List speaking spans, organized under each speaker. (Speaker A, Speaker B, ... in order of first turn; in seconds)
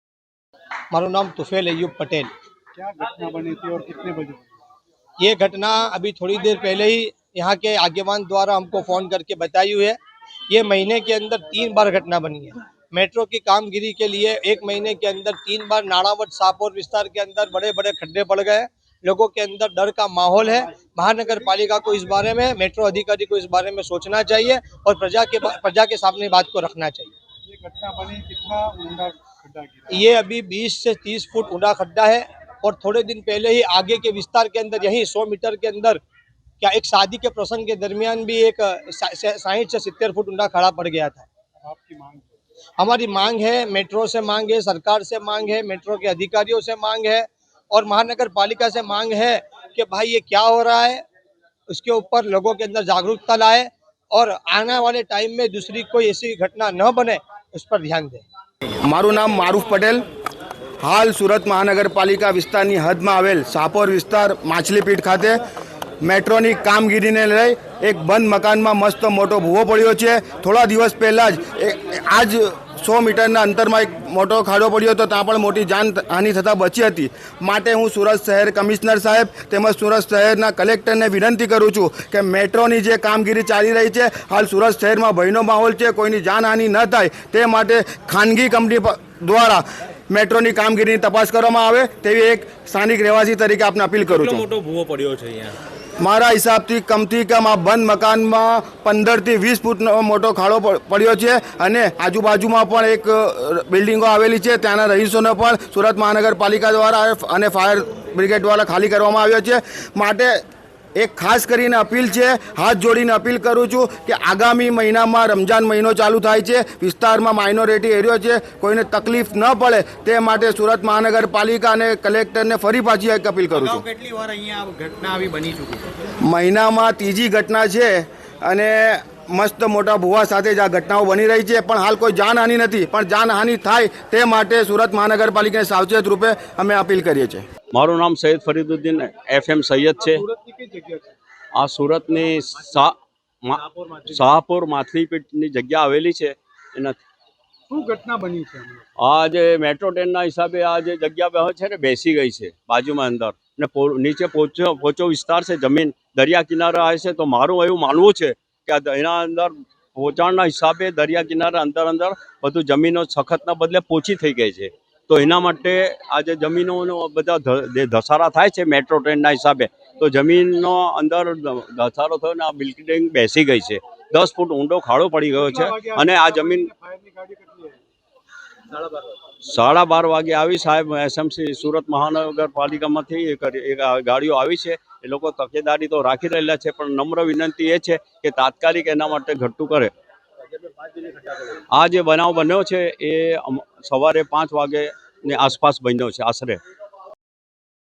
Speaker A: 0.9-2.3, 5.2-10.0, 10.5-27.1, 29.9-36.0, 36.6-41.3, 42.8-51.0, 51.7-58.2
Speaker B: 2.8-4.5, 27.5-29.9, 41.6-42.3, 140.0-141.2, 147.7-148.8, 175.3-177.8
Speaker C: 58.8-60.0, 60.8-65.4, 66.0-94.4, 96.0-110.4, 111.0-123.8, 126.2-137.4
Speaker D: 123.6-125.9
Speaker E: 137.7-140.2, 141.6-147.0, 149.0-176.7, 179.4-189.9, 191.7-196.6